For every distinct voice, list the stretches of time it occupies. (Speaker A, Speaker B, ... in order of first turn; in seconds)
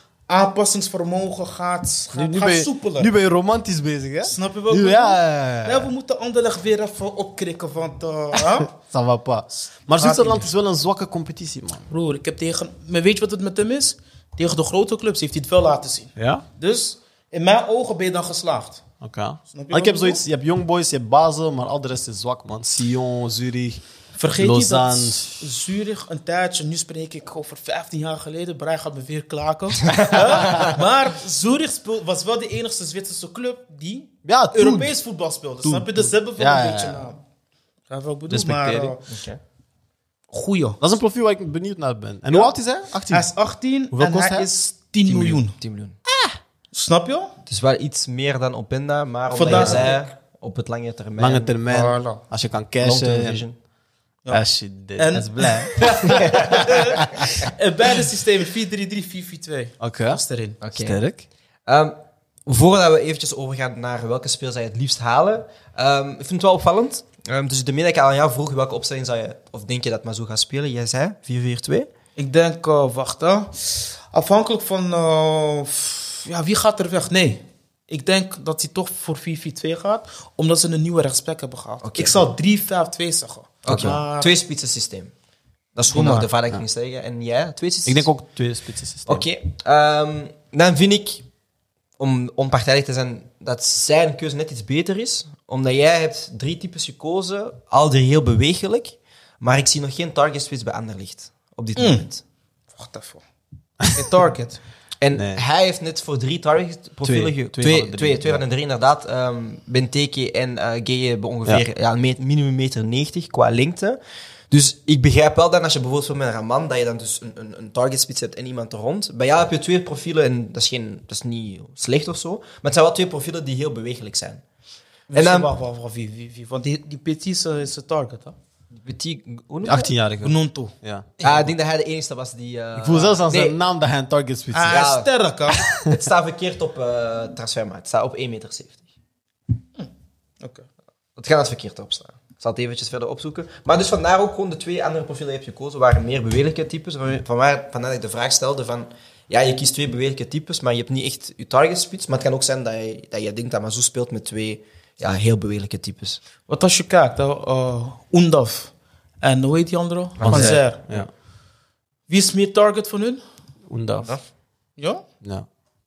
Speaker A: 0.3-3.1, 4.2-8.7, 10.0-10.5, 11.9-18.8, 19.5-20.2, 24.2-37.2, 37.9-39.1, 40.3-40.8, 43.1-45.6, 46.7-47.3, 49.3-50.1, 51.7-52.2, 55.0-60.6, 72.2-84.3, 85.9-86.3, 101.8-102.1, 102.7-103.2, 103.8-104.6, 125.1-128.3, 130.2-130.7, 134.5-135.6, 156.5-160.9, 162.1-163.2
Speaker B: 2.1-5.9, 8.7-11.8, 16.2-16.4, 19.0-23.8, 24.4-25.4, 34.2-34.9, 35.6-37.1, 38.3-39.0, 40.8-43.3, 43.9-44.5, 45.1-45.4, 49.5-49.9, 51.2-53.5, 54.3-57.3, 59.8-61.2, 83.7-84.0, 87.8-89.3, 105.1-105.4, 107.0-108.4, 129.7-131.3, 132.8-134.9, 160.2-161.1, 163.7-164.1
Speaker C: 29.9-30.8, 39.1-39.4, 45.6-46.0, 47.5-51.6, 52.8-53.5, 56.1-56.6, 60.6-61.0, 61.7-71.9, 81.8-82.2, 83.7-85.1, 85.8-88.1, 89.1-91.2, 92.0-102.2, 105.0-114.0, 114.5-124.4, 125.1-125.5, 128.8-129.9, 131.2-133.2, 134.7-135.1, 135.7-138.8, 141.2-156.2, 160.2-160.6